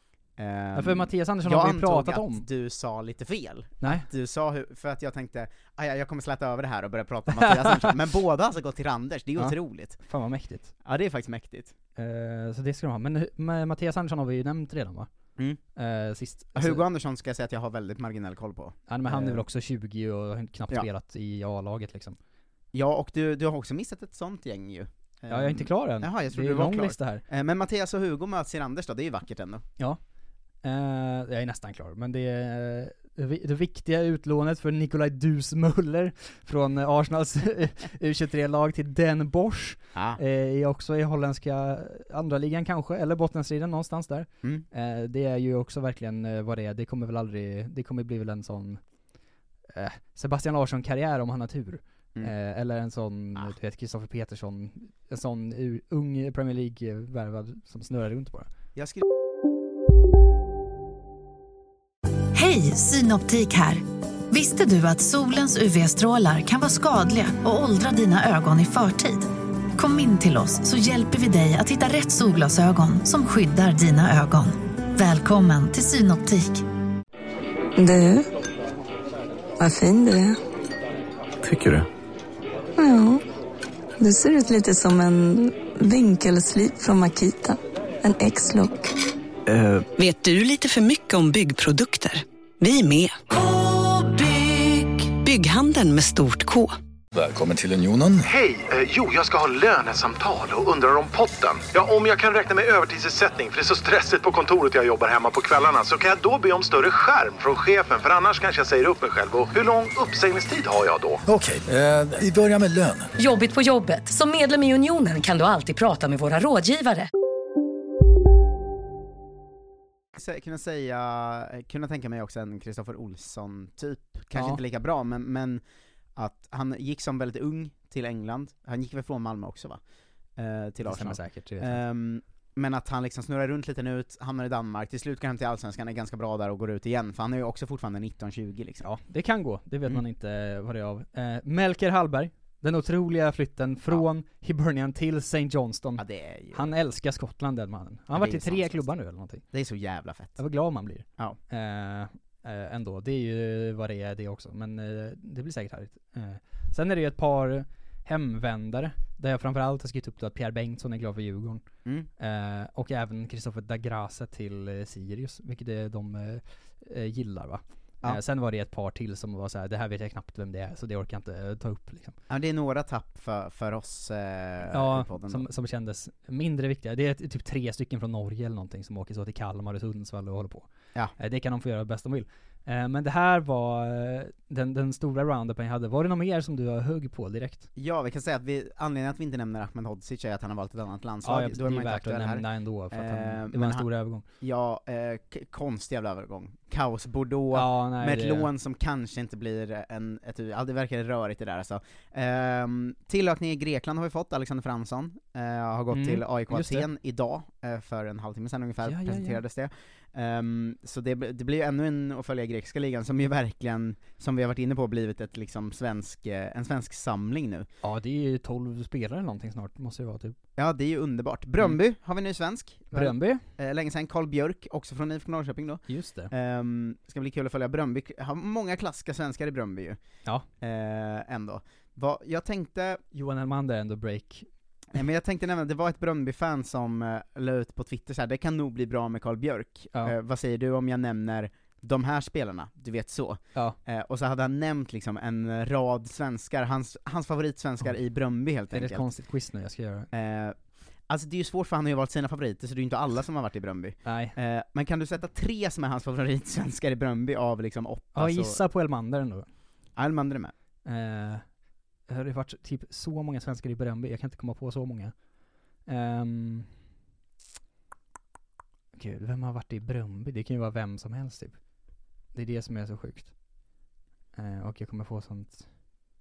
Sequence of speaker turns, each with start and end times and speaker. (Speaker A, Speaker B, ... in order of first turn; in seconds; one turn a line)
Speaker A: 0.4-10.0
Speaker B: 0.8-2.5
Speaker B: 3.8-4.1
Speaker B: 7.3-7.9
Speaker B: 9.4-10.7
Speaker A: 10.8-11.8
Speaker B: 12.0-15.1
Speaker B: 15.8-16.9
Speaker A: 16.6-19.4
Speaker B: 18.9-22.2
Speaker A: 22.7-29.6
Speaker B: 25.3-27.2
Speaker B: 30.6-48.8
Speaker A: 39.9-40.2
Speaker B: 49.7-58.5
Speaker A: 58.8-59.0
Speaker C: 62.3-76.6
Speaker D: 77.8-78.3
Speaker D: 79.6-80.4
Speaker E: 81.5-81.8
Speaker D: 82.8-83.2
Speaker D: 84.0-88.9
Speaker F: 89.5-93.1
Speaker C: 93.5-94.7
Speaker C: 95.2-95.9
Speaker E: 97.2-98.3
Speaker G: 98.3-111.2
Speaker E: 111.3-113.1
Speaker H: 113.2-117.1
Speaker A: 120.1-125.6
Speaker B: 124.3-124.6
Speaker A: 126.2-129.8
Speaker A: 130.3-138.9
Speaker B: 130.8-131.8
Speaker B: 138.8-149.4
Speaker A: 146.0-146.7
Speaker A: 148.1-148.9
Speaker A: 149.5-150.4
Speaker B: 150.4-161.7
Speaker B: 162.2-172.2
Speaker A: 172.3-175.5
Speaker B: 174.7-187.7
Speaker A: 187.8-217.7
Speaker B: 191.2-194.2
Speaker B: 197.5-198.5
Speaker B: 205.9-206.9
Speaker B: 208.8-209.4
Speaker B: 217.8-220.4
Speaker A: 220.6-230.0
Speaker B: 222.9-223.4
Speaker B: 225.9-226.3
Speaker A: 230.6-233.0
Speaker B: 233.1-234.5
Speaker A: 234.9-249.0
Speaker B: 248.7-250.1
Speaker A: 250.1-258.6
Speaker B: 254.0-254.4
Speaker B: 258.1-259.5
Speaker A: 259.9-260.5
Speaker B: 260.9-265.3
Speaker B: 265.8-266.7
Speaker B: 268.9-271.6
Speaker B: 272.3-273.4
Speaker B: 274.4-275.8